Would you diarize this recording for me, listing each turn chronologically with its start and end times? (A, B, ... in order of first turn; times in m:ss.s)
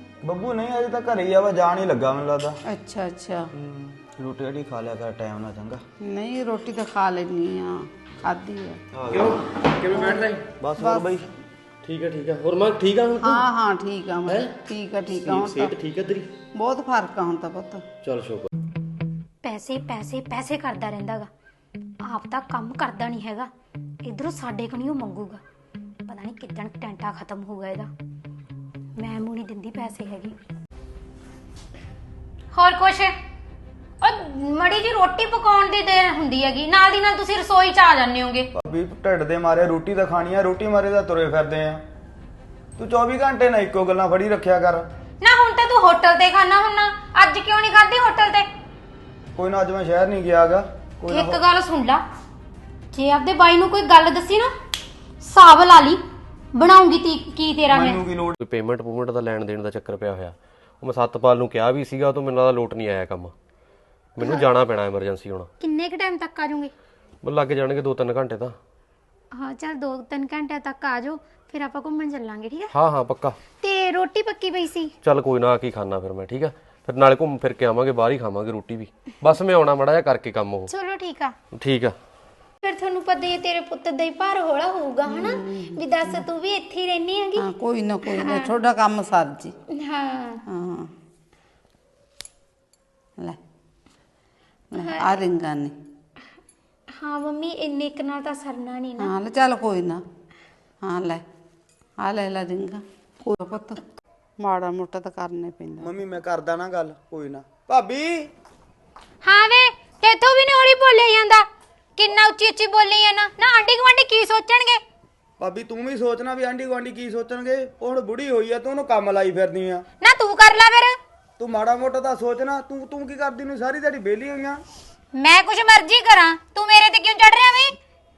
0:00.2-0:02.6 A
0:02.7-0:03.5 B
0:03.6-0:05.8 A
0:06.0-0:08.8 B
0:08.9-0:11.3 A
0:09.1-0:10.4 C
0:10.8-0:11.1 B
0:11.8-0:13.5 C
0:13.2-0:15.7 B
0:14.3-0:14.6 C
0:15.1-0:16.3 C
0:16.6-0:17.8 B
0:18.0-0:18.5 C
0:19.4-0:21.3 D
0:22.0-0:23.5 D
0:24.0-0:25.4 D
0:26.1-0:27.9 D
0:29.0-0:30.4 D
0:32.5-0:33.1 D
0:34.0-0:38.5 D
0:38.6-0:41.8 A
0:42.8-0:44.9 A
0:45.2-0:48.5 D
0:49.4-0:51.4 A
0:51.1-0:52.0 D
0:52.9-0:54.5 D
0:55.2-0:56.0 D
0:56.6-0:58.0 D
0:57.7-0:58.4 A
0:58.4-1:03.3 C
1:04.2-1:05.5 C
1:04.2-1:04.4 D
1:05.6-1:06.7 D
1:07.2-1:08.6 C
1:09.3-1:12.7 D
1:12.7-1:13.4 C
1:13.6-1:14.9 D
1:15.0-1:20.7 C
1:20.7-1:21.3 D
1:21.5-1:21.9 C
1:22.6-1:27.5 D
1:25.1-1:26.2 B
1:27.4-1:29.5 B
1:28.1-1:28.5 D
1:29.7-1:30.4 D
1:30.5-1:30.9 B
1:34.7-1:35.7 B
1:34.8-1:35.2 D
1:37.0-1:39.2 D
1:39.0-1:40.0 B
1:40.8-1:41.2 B
1:42.0-1:43.8 B
1:44.4-1:45.9 B
1:45.8-1:48.3 A
1:49.2-1:51.5 D
1:52.0-1:54.8 D
1:55.4-1:59.8 A
2:00.0-2:01.0 D
2:01.4-2:04.6 A
2:05.2-2:07.8 D